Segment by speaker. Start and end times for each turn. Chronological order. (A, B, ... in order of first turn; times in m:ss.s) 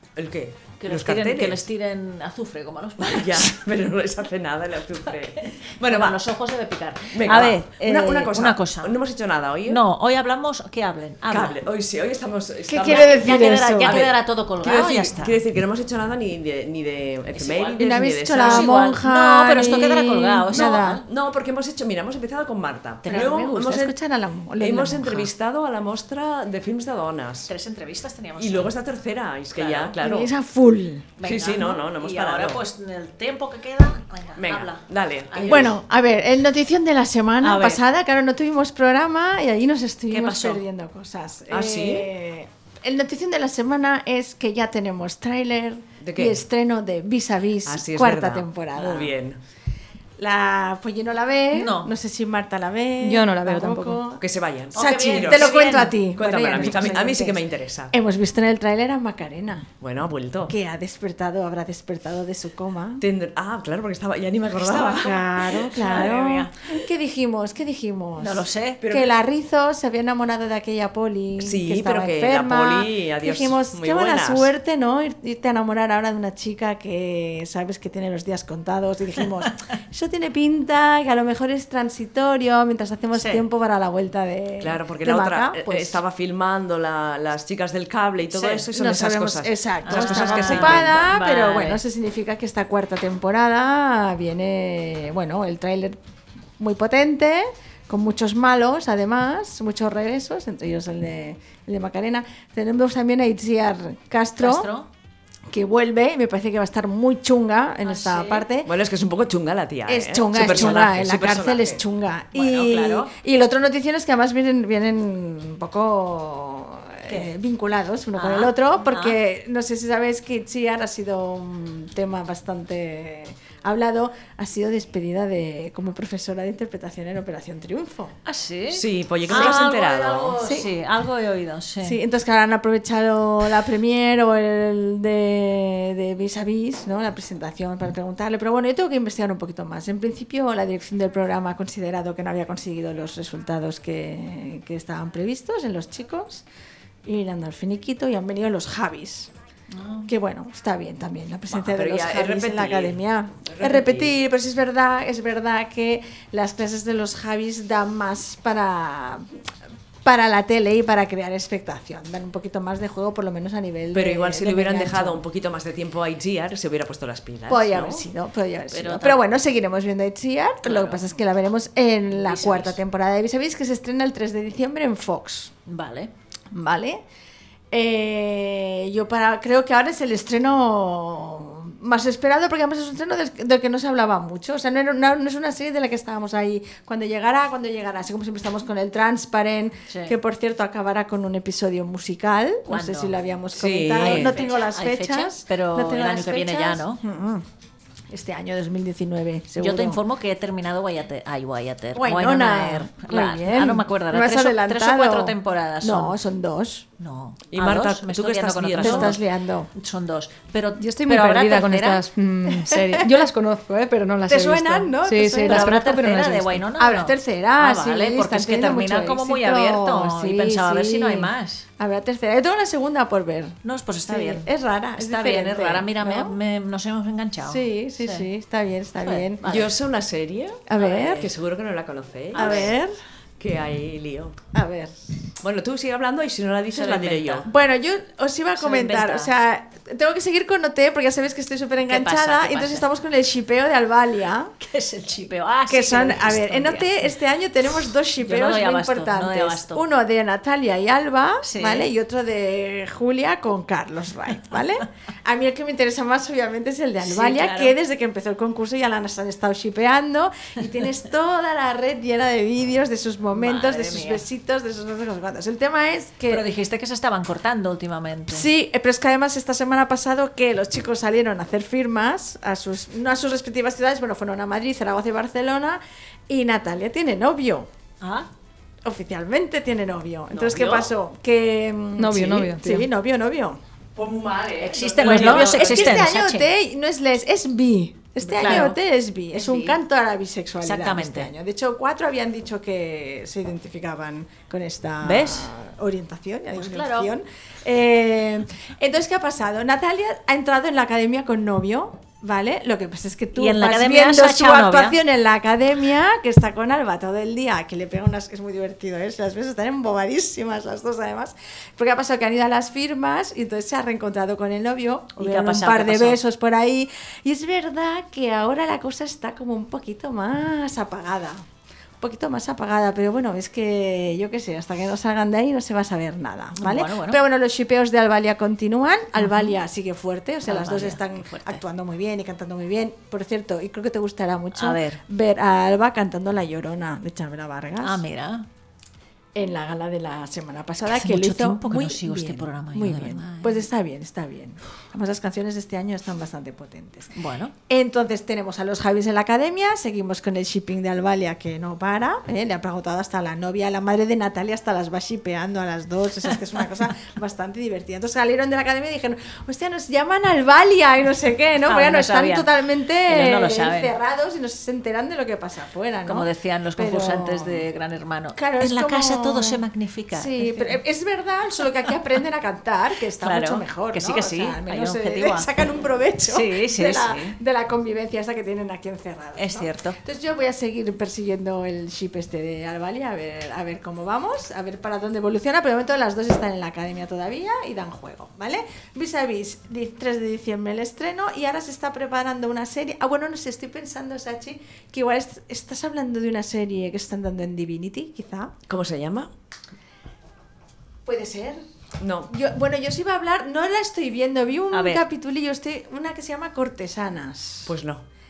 0:00.2-0:01.6 A
0:00.8-0:03.6 B
0:03.0-0:06.2 A
0:05.2-0:09.0 B
0:07.1-0:09.8 A
0:09.6-0:11.6 B
0:11.3-0:18.8 A
0:12.7-0:14.0 C
0:12.8-0:15.4 B
0:17.3-0:21.0 B
0:17.8-0:21.0 C
0:21.0-0:24.0 A
0:23.0-0:23.4 B
0:23.1-0:25.2 C
0:24.6-0:27.5 A
0:27.5-0:28.7 B
0:28.4-0:30.3 A
0:29.5-0:29.9 B
0:30.0-0:31.1 C
0:31.2-0:35.7 B
0:31.2-0:32.6 A
0:34.4-0:35.7 A
0:35.5-0:49.1 C
0:37.4-0:37.8 B
0:40.1-0:40.6 B
0:41.5-0:42.1 A
0:46.0-0:46.4 A
0:47.6-0:49.4 A
0:50.2-0:54.2 C
0:51.5-0:51.9 B
0:53.0-0:54.0 D
0:54.2-0:55.5 A
0:54.7-0:56.0 B
0:54.8-0:57.4 C
0:56.2-0:57.9 A
0:56.6-0:56.9 B
0:57.9-0:59.7 C
0:59.8-1:00.5 A
1:00.5-1:03.0 C
1:03.0-1:05.1 A
1:04.6-1:06.5 B
1:04.8-1:26.0 C
1:05.7-1:06.1 A
1:08.2-1:08.9 B
1:08.8-1:09.1 A
1:11.4-1:14.5 A
1:23.2-1:23.4 B
1:24.6-1:31.1 A
1:28.3-1:36.0 C
1:29.8-1:31.8 B
1:36.6-1:44.7 C
1:44.4-1:44.9 B
1:45.5-1:48.7 C
1:47.8-1:48.5 B
1:48.6-1:51.8 A
1:49.9-2:08.2 C
1:50.4-1:50.8 B
1:52.3-1:53.1 B
1:58.1-1:59.2 B
2:08.2-2:12.0 B
2:08.7-2:10.4 A
2:10.4-2:10.7 C
2:11.8-2:26.4 C
2:27.0-2:29.3 C
2:29.7-2:30.1 B
2:30.1-2:39.3 C
2:31.5-2:34.1 A
2:40.0-2:45.2 C
2:43.9-2:48.0 A
2:47.5-2:55.5 C
2:48.7-2:49.2 B
2:50.6-2:51.0 B
2:52.1-2:52.8 B
2:55.6-2:56.1 B
2:56.5-2:57.0 C
2:57.7-3:17.4 C
3:09.9-3:10.1 B
3:12.7-3:13.2 B
3:13.5-3:14.4 A
3:13.9-3:17.0 B
3:18.1-3:20.0 C
3:19.6-3:26.2 B
3:21.9-3:26.9 C
3:27.0-3:29.2 B
3:27.5-3:29.2 A
3:28.8-3:29.7 C
3:29.7-3:32.0 B
3:30.8-3:36.6 D
3:32.7-3:33.1 C
3:34.3-3:36.0 C
3:35.4-3:41.7 B
3:36.7-3:46.3 C
3:43.6-3:48.3 B
3:47.4-3:49.5 C
3:49.0-3:49.7 B
3:49.4-3:52.7 A
3:50.7-3:51.3 C
3:50.8-3:51.3 B
3:52.3-3:52.9 C
3:52.3-3:52.7 B
3:53.4-3:54.4 A
3:54.5-3:55.0 C
3:55.4-3:57.5 A
3:56.7-3:57.5 B
3:57.5-4:04.5 C
3:58.6-3:59.3 B
4:01.9-4:02.9 B
4:04.6-4:07.1 B
4:05.7-4:26.4 C
4:08.2-4:09.8 B
4:11.4-4:11.9 B
4:17.0-4:17.7 B
4:23.3-4:24.2 B
4:26.3-4:28.5 B
4:28.3-4:37.7 C
4:38.0-4:38.3 B
4:38.8-4:43.6 C
4:40.3-4:40.9 B
4:42.0-4:42.8 D
4:44.0-4:46.0 A
4:44.6-4:46.5 B
4:45.0-5:21.4 C
4:48.2-4:48.8 B
4:49.3-4:49.8 B
4:50.6-4:51.3 B
4:55.0-4:55.5 B
4:56.5-4:57.1 B
5:03.3-5:05.0 B
5:15.2-5:16.2 B
5:22.0-5:38.0 C
5:26.6-5:27.2 B
5:29.2-5:29.6 B
5:30.4-5:31.6 B
5:34.5-5:35.0 B
5:37.8-5:38.5 B
5:39.3-5:47.1 C
5:40.8-5:43.6 B
5:47.1-5:47.5 B
5:47.7-6:07.6 C
6:01.7-6:02.5 B
6:03.1-6:03.9 B
6:06.0-6:10.8 B
6:08.4-6:38.5 C
6:13.2-6:15.5 B
6:16.2-6:17.4 B
6:19.4-6:20.0 B
6:38.7-6:39.3 A
6:41.0-6:41.6 C
6:42.0-6:42.3 A
6:42.3-6:47.7 C
6:44.7-6:45.0 B
6:47.6-6:48.0 A